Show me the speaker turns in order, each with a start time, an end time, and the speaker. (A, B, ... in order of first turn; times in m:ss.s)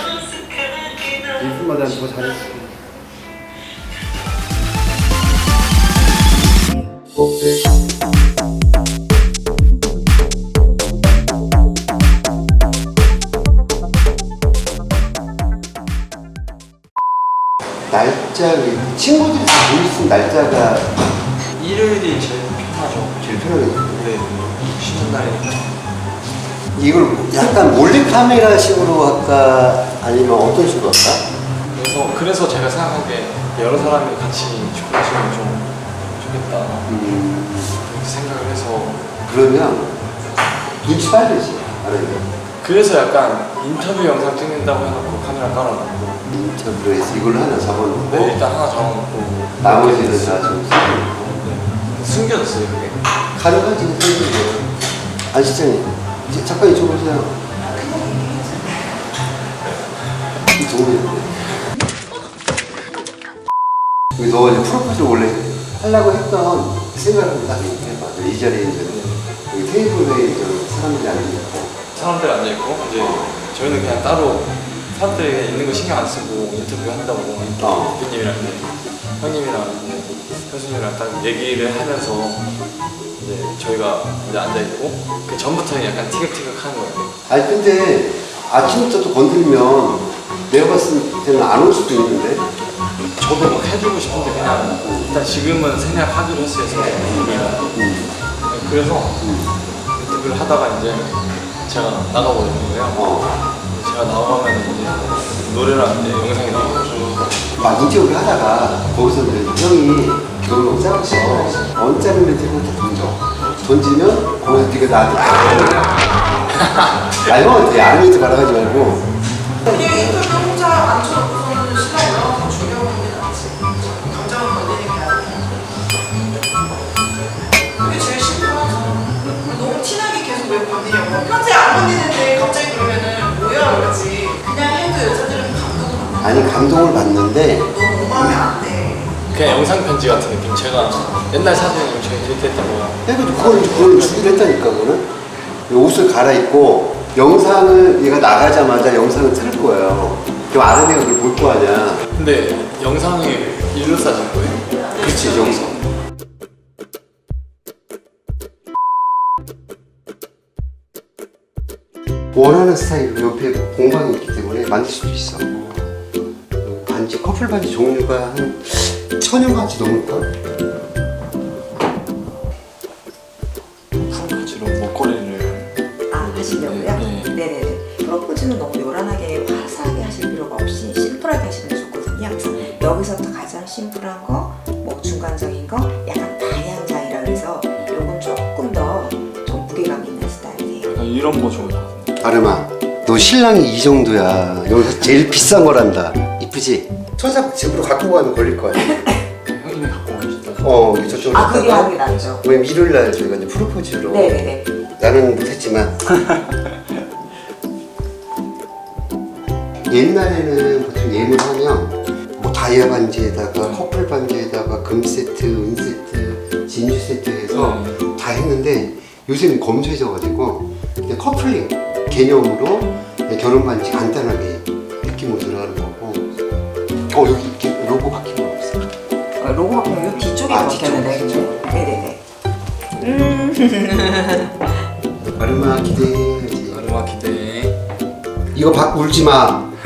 0:01.3-0:02.7 A
0:17.9-0:20.9 A
0:21.6-0:23.3 B
0:23.2-0:24.1 A
0:23.9-0:25.7 B
0:26.7-0:31.2 A
0:31.7-0:36.9 B
0:36.9-0:37.8 A
0:37.8-0:39.0 B
0:39.3-0:40.0 A
0:40.8-0:42.3 A
0:42.6-0:46.2 B
0:46.3-0:48.4 A
0:48.0-0:50.5 B
0:49.6-0:51.3 A
0:51.1-0:53.0 B
0:53.3-0:54.7 A
0:55.3-0:57.4 A
0:57.8-0:58.6 C
1:00.5-1:01.5 A
1:04.2-1:11.7 A
1:08.8-1:09.2 B
1:11.9-1:22.5 B
1:13.0-1:13.3 A
1:17.6-1:18.0 A
1:23.2-1:27.1 B
1:27.3-1:32.5 A
1:33.2-1:37.7 B
1:34.8-1:35.1 A
1:37.7-1:38.1 A
1:38.4-1:39.2 B
1:39.2-1:39.5 A
1:39.9-1:43.0 B
1:42.9-1:43.4 A
1:43.7-1:47.2 B
1:47.6-1:55.9 A
1:57.2-1:59.0 A
1:59.6-2:00.4 A
1:59.7-2:05.4 D
2:07.8-2:16.2 D
2:16.2-2:17.7 A
2:17.7-2:19.0 D
2:19.3-2:24.6 B
2:23.0-2:25.1 A
2:25.7-2:32.0 A
2:32.1-2:35.8 B
2:35.0-2:35.7 A
2:42.3-2:45.7 A
2:46.6-2:50.3 A
2:53.9-2:55.7 B
2:56.1-3:10.9 C
2:56.6-2:57.3 B
3:10.8-3:12.2 B
3:12.2-3:19.0 A
3:19.4-3:21.4 B
3:20.6-3:25.9 A
3:21.3-3:22.4 C
3:24.0-3:24.7 C
3:29.9-3:46.2 A
3:33.6-3:33.8 B
3:37.5-3:38.0 B
3:47.1-3:48.9 A
3:49.4-3:52.2 C
3:50.5-3:51.5 A
3:53.0-3:54.7 C
3:55.4-3:56.8 A
3:56.7-3:57.8 B
3:58.5-3:59.7 A